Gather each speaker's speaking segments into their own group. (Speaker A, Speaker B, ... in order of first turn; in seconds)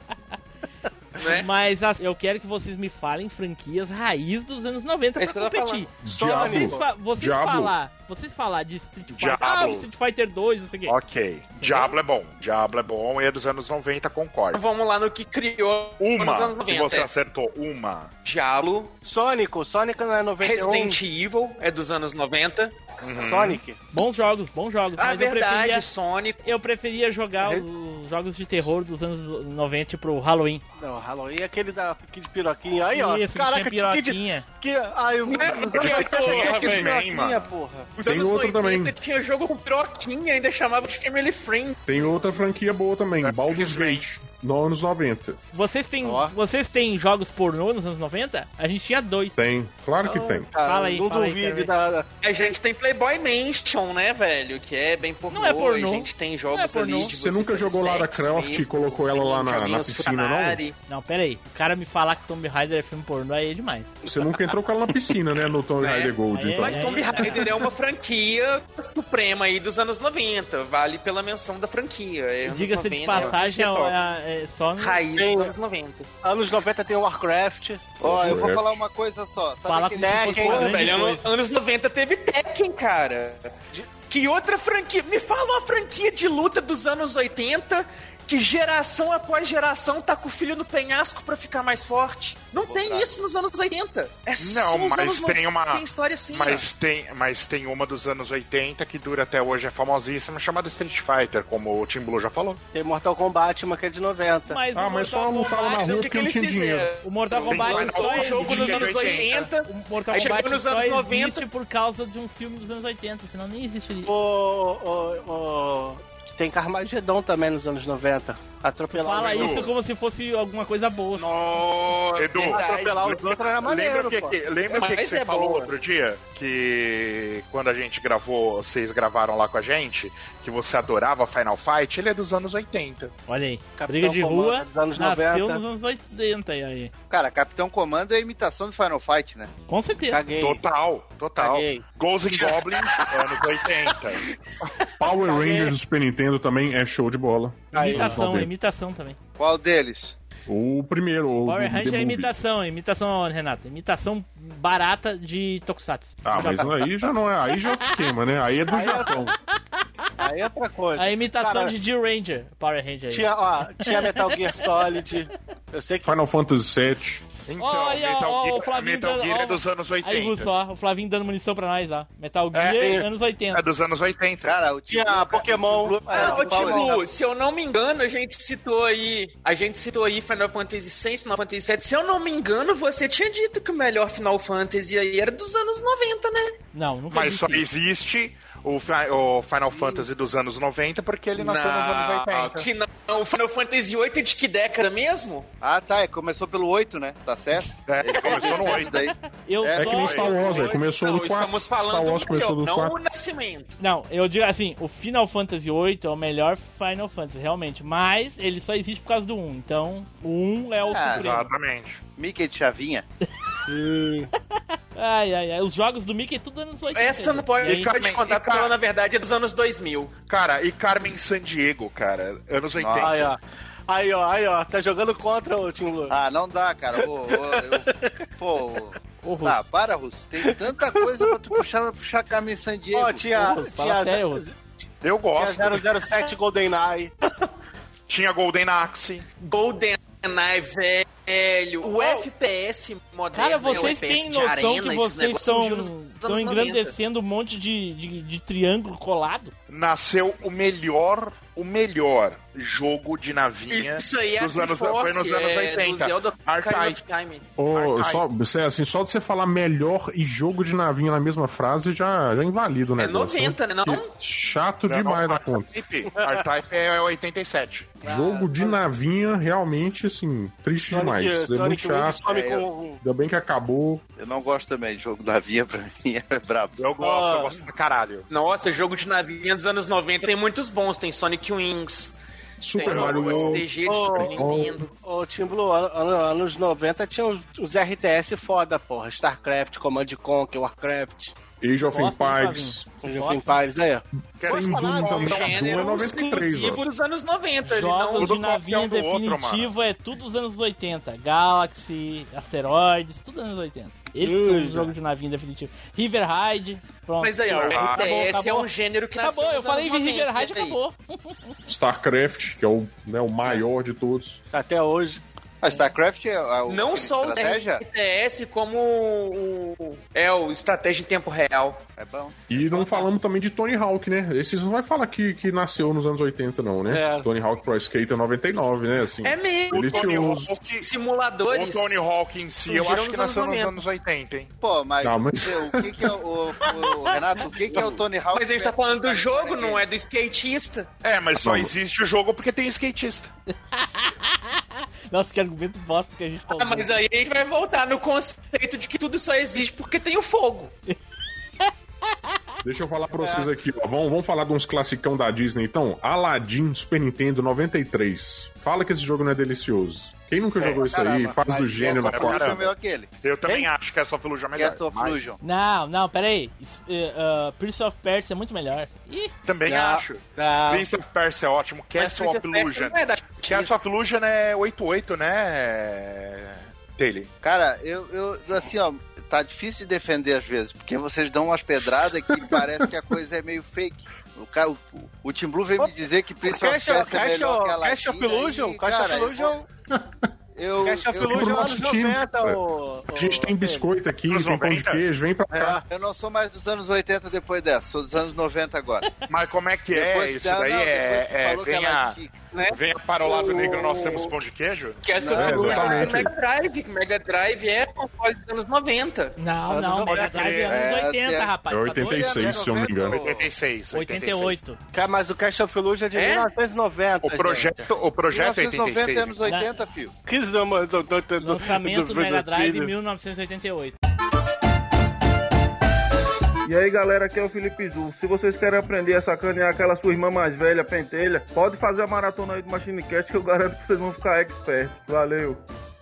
Speaker A: 1.2-1.5, 5.2-5.9, 14.5-17.1, 18.2-18.9, 20.4-22.7, 25.0-26.5, 35.3-37.0, 38.0-41.8, 52.2-60.7, 65.8-74.0, 74.8-76.1, 80.5-83.5, 84.1-96.7, 105.7-111.4, 121.1-123.2, 124.7-125.7, 176.1-186.6, 191.3-195.5, 200.4-203.8, 216.9-220.1, 239.4-246.9, 253.7-257.4, 263.0-264.1, 278.3-282.1, 282.7-284.9, 295.1-298.4, 307.2-310.8, 316.7-321.8, 329.2-332.0, 332.6-333.8, 338.3-340.9, 346.5-350.7, 371.9-373.7, 402.5-404.3, 405.0-409.3, 416.1-416.5
Speaker B: 1.2-10.9, 11.6-11.9, 23.9-25.9, 26.4-30.6, 32.9-34.4, 45.5-49.4, 50.5-51.7, 55.3-57.1, 60.9-63.9, 66.3-67.6, 72.4-75.0, 79.7-81.3, 104.5-106.0, 107.0-114.1, 118.9-121.2, 133.3-136.9, 139.7-140.2, 147.8-149.2, 151.4-158.2, 159.1-160.0, 160.9-164.4, 167.6-173.6, 186.7-187.7, 199.4-200.6, 203.8-211.5, 214.9-217.9, 229.2-229.6, 233.3-234.4, 243.3-249.5, 291.8-293.6, 297.6-311.5, 343.7-346.9, 365.4-369.3, 409.4-412.6, 413.9-414.8, 421.4-423.9
Speaker C: 6.0-7.7, 38.0-38.9, 41.9-45.4, 49.4-50.5, 57.1-60.6, 64.0-67.3, 78.0-78.8, 104.7-106.9, 145.0-148.5, 150.5-152.3, 156.2-159.3, 166.0-167.2, 199.7-203.0, 257.6-265.7, 268.0-272.4, 273.0-274.0, 282.6-284.8, 291.6-292.9, 294.5-296.9, 311.6-314.4, 322.5-330.5, 335.0-336.0, 341.4-341.7, 352.6-362.6, 391.3-392.6, 393.1-395.8, 405.3-406.3, 411.7-413.2
Speaker D: 6.0-6.8, 19.0-21.0, 23.2-23.8, 30.8-37.9, 46.0-46.3, 50.0-52.0, 75.2-75.5, 76.2-77.8, 80.0-80.9, 102.7-104.6, 114.0-119.6, 122.5-124.3, 133.8-135.6, 140.1-140.6, 141.4-143.1, 145.2-145.7, 147.7-148.2, 158.7-159.2, 160.2-161.7, 163.1-166.2, 172.7-173.1, 174.9-177.0, 213.7-214.3, 223.0-226.1, 227.3-227.6, 230.4-231.3, 232.9-234.7, 235.3-237.1, 266.1-266.4, 268.1-268.8, 270.9-273.0, 277.0-277.5, 283.8-284.5, 285.0-291.3, 293.0-295.5, 304.2-304.9, 314.5-315.2, 326.9-327.3, 353.2-353.5, 360.6-361.4, 369.6-370.9, 386.4-389.6, 390.8-393.9, 395.5-395.8, 409.7-410.6, 414.9-417.8, 420.2-422.9
Speaker E: 9.1-9.9, 10.9-14.6, 16.0-18.1, 23.0-23.6, 35.3-37.5, 43.2-44.0, 94.4-102.6, 107.5-109.5, 119.2-119.7, 122.1-133.1, 140.4-144.2, 167.5-170.5, 172.5-172.9, 173.5-174.6, 187.1-192.7, 197.9-199.1, 200.0-200.5, 211.1-212.0, 217.6-218.8, 220.3-223.3, 235.0-235.8, 238.1-239.2, 249.7-257.0, 257.7-258.2, 264.9-268.1, 276.8-278.3, 282.8-283.6, 294.4-295.9, 298.2-299.7, 307.5-308.1, 329.7-330.9, 331.5-334.5, 341.0-343.3, 361.8-362.7, 363.2-365.3, 369.4-377.3, 394.3-395.0, 399.3-402.1, 402.7-406.0, 410.1-410.8, 413.0-414.6, 417.2-419.4
Speaker F: 78.0-80.5, 92.6-93.1, 137.1-139.5, 149.4-150.1, 174.4-177.0, 195.6-200.8, 210.8-211.3, 212.2-213.0, 222.8-223.2, 226.1-233.3, 272.3-272.6, 274.2-276.8, 315.6-317.8, 322.0-322.5, 334.6-339.9, 361.3-363.1, 364.5-365.4, 377.4-389.6, 390.5-391.6, 395.9-399.1, 399.9-402.4, 405.2-406.1, 410.7-413.5, 418.3-420.1
Speaker G: 426.6-435.6